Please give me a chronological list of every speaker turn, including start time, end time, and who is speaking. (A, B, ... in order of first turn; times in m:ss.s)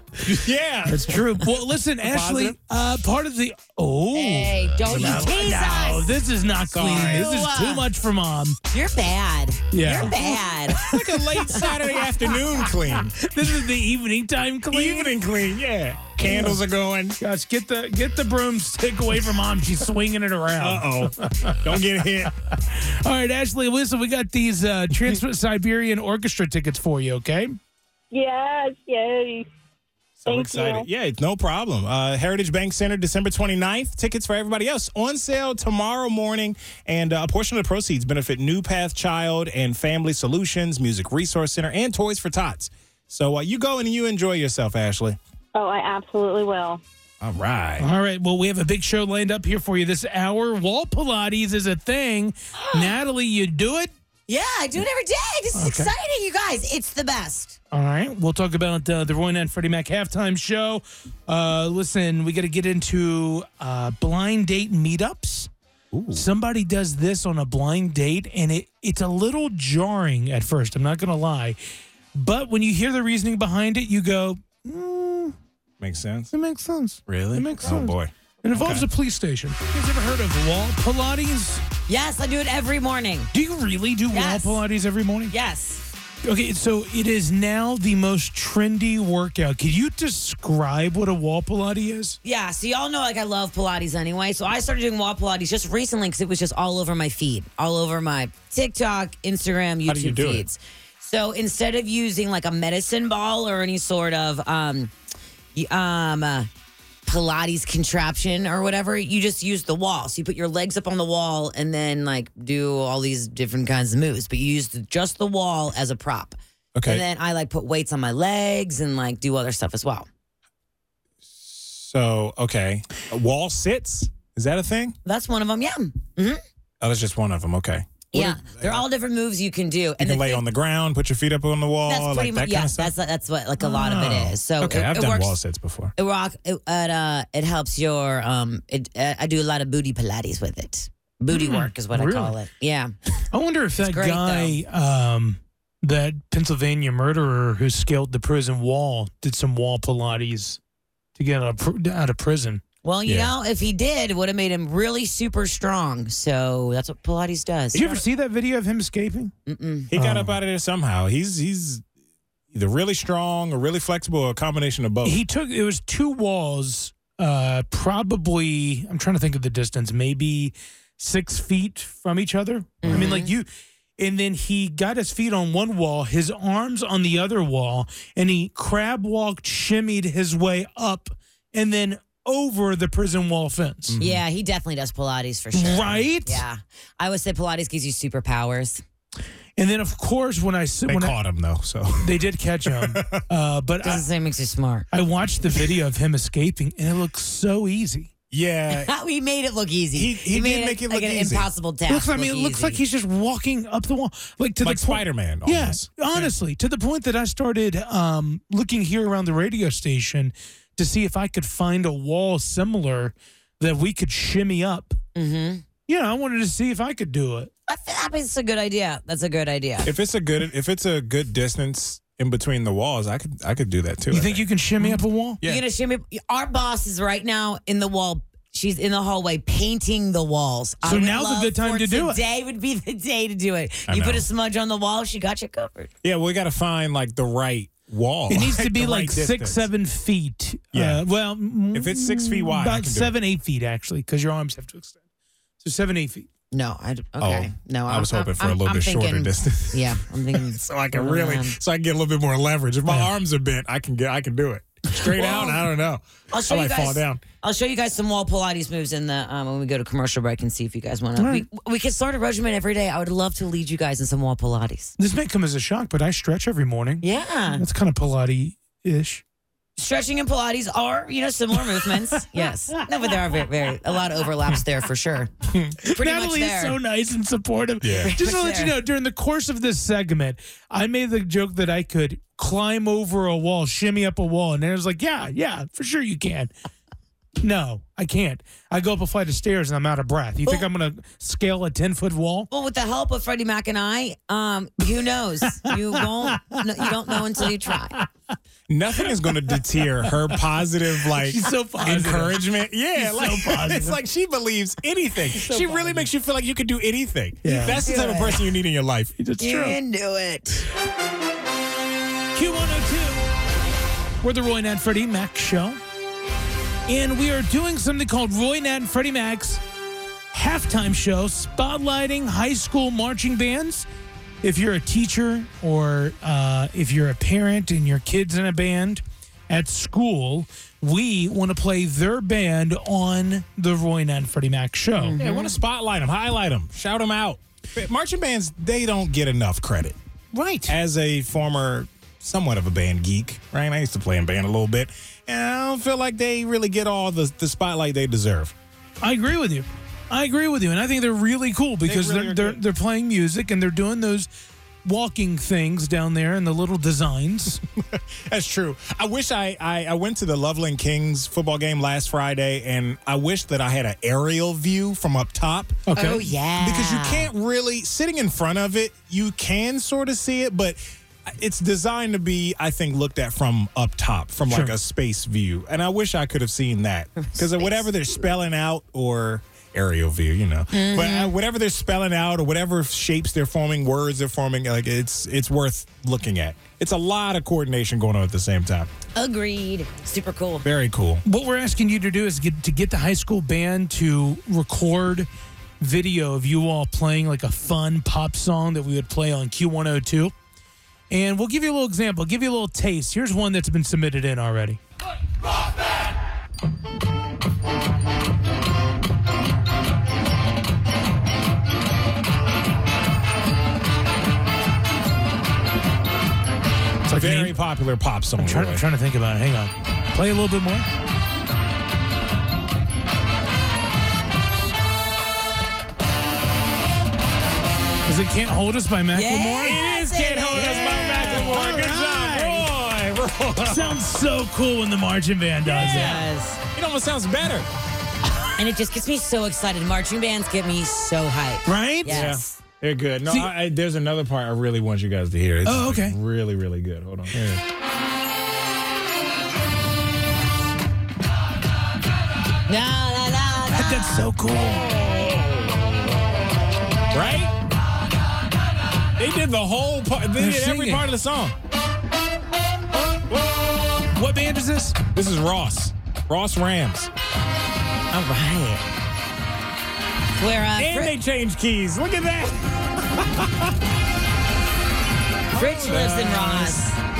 0:00.2-0:02.6 A
0:00.9-0:08.6 B
0:04.1-0:06.2 C
0:04.8-0:05.3 A
0:06.7-0:07.5 A
0:06.8-0:07.9 C
0:08.7-0:11.8 C
0:09.7-0:10.2 B
0:10.8-0:13.2 A
0:13.2-0:15.2 B
0:14.7-0:17.2 A
0:16.2-0:16.6 B
0:17.2-0:21.7 B
0:20.6-0:22.3 A
0:22.7-0:27.5 B
0:28.1-0:29.5 D
0:30.2-0:45.2 A
0:30.3-0:30.8 D
0:45.6-0:46.8 D
0:47.2-0:47.9 A
0:47.8-0:53.9 B
0:52.6-0:52.9 C
0:54.3-0:57.6 C
0:55.5-0:55.9 B
0:57.7-1:05.5 B
1:05.9-1:06.3 A
1:06.1-1:11.6 B
1:12.2-1:15.4 B
1:15.8-1:16.3 A
1:16.3-1:21.6 B
1:17.1-1:18.8 A
1:21.9-1:23.3 C
1:23.3-1:25.3 B
1:24.1-1:24.6 C
1:25.3-1:25.8 C
1:26.2-1:32.2 B
1:32.2-1:44.9 C
1:39.8-1:40.4 A
1:45.6-1:46.5 C
1:47.1-2:00.1 C
1:56.8-1:57.0 A
2:01.3-2:05.0 A
2:05.0-2:06.4 C
2:06.8-2:08.8 A
2:08.1-2:10.4 C
2:10.0-2:12.9 A
2:11.8-2:15.4 C
2:13.6-2:14.1 B
2:13.8-2:15.9 A
2:16.0-2:22.9 C
2:21.3-2:22.3 B
2:23.3-2:30.6 B
2:23.8-2:24.6 C
2:31.2-2:32.6 B
2:32.8-2:38.0 C
2:33.0-2:33.3 A
2:37.7-2:39.3 B
2:39.4-2:39.9 C
2:39.9-2:41.8 A
2:39.9-2:40.3 B
2:42.5-2:45.2 A
2:45.0-3:04.0 B
2:52.8-2:53.3 C
3:03.9-3:04.2 A
3:04.0-3:08.8 C
3:05.5-3:06.4 B
3:09.6-3:11.2 B
3:10.9-3:13.2 A
3:12.0-3:14.1 B
3:13.8-3:14.9 C
3:14.9-3:18.1 B
3:18.3-3:18.9 A
3:18.7-3:22.8 C
3:19.9-3:21.5 A
3:21.9-3:35.0 B
3:24.6-3:26.3 A
3:35.2-3:35.6 C
3:35.9-3:37.5 B
3:37.7-3:39.9 C
3:39.8-3:44.4 A
3:44.1-3:45.4 B
3:44.8-3:55.9 C
3:50.8-3:52.2 B
3:53.9-3:54.3 A
3:56.0-3:59.7 A
3:58.3-4:05.0 B
4:00.7-4:01.0 A
4:01.7-4:03.2 A
4:05.6-4:06.3 B
4:06.5-4:11.6 C
4:07.2-4:17.2 A
4:12.8-4:13.1 B
4:15.2-4:15.6 C
4:16.3-4:24.9 C
4:21.2-4:21.4 B
4:25.0-4:29.2 B
4:27.0-4:27.6 C
4:29.8-4:36.8 C
4:35.5-4:35.8 A
4:35.8-4:46.5 B
4:37.8-4:38.2 A
4:38.0-4:38.8 C
4:47.4-4:52.5 B
4:52.5-4:58.0 C
4:58.7-5:09.1 A
4:59.5-5:00.4 B
5:01.0-5:02.4 B
5:02.9-5:04.0 B
5:05.3-5:06.1 B
5:07.4-5:07.8 B
5:07.7-5:08.4 C
5:09.2-5:09.8 B
5:09.4-5:10.7 C
5:12.3-5:13.3 B
5:14.2-5:15.8 B
5:16.9-5:19.6 B
5:20.3-5:23.9 B
5:24.4-5:35.2 B
5:35.0-5:35.6 C
5:35.2-5:40.0 A
5:40.3-5:40.8 B
5:40.7-5:48.6 A
5:49.0-5:54.3 B
5:51.8-5:52.6 A
5:54.8-5:57.6 B
5:57.7-6:05.9 A
6:05.9-6:06.3 B
6:05.9-6:07.3 C
6:06.6-6:28.9 A
6:14.5-6:14.7 B
6:17.2-6:17.9 C
6:20.7-6:21.3 C
6:29.2-6:30.7 C
6:30.6-6:31.2 A
6:31.2-6:35.3 B
6:35.8-6:40.3 B
6:41.1-6:44.8 B
6:57.1-6:57.6 B
6:57.1-6:58.8 A
6:58.4-7:00.9 B
7:08.0-7:09.8 B
7:09.1-7:11.6 C
7:09.6-7:14.0 A
7:10.5-7:12.7 B
7:13.6-7:16.2 B
7:15.6-7:17.7 A
7:15.7-7:16.6 C
7:18.6-7:22.6 C
7:21.7-7:22.2 B
7:22.0-7:27.6 A
7:23.3-7:23.5 B
7:25.6-7:26.2 B
7:32.7-7:34.3 C
7:33.7-7:34.9 B
7:34.8-7:35.8 A
7:37.1-7:37.6 A
7:39.2-7:41.6 A
7:40.4-7:41.1 B
7:44.1-7:45.0 B
7:45.1-7:47.1 A
7:48.1-7:48.8 C
7:50.4-7:51.1 C
7:50.8-7:53.8 A
7:55.5-7:56.9 A
7:55.5-7:57.0 C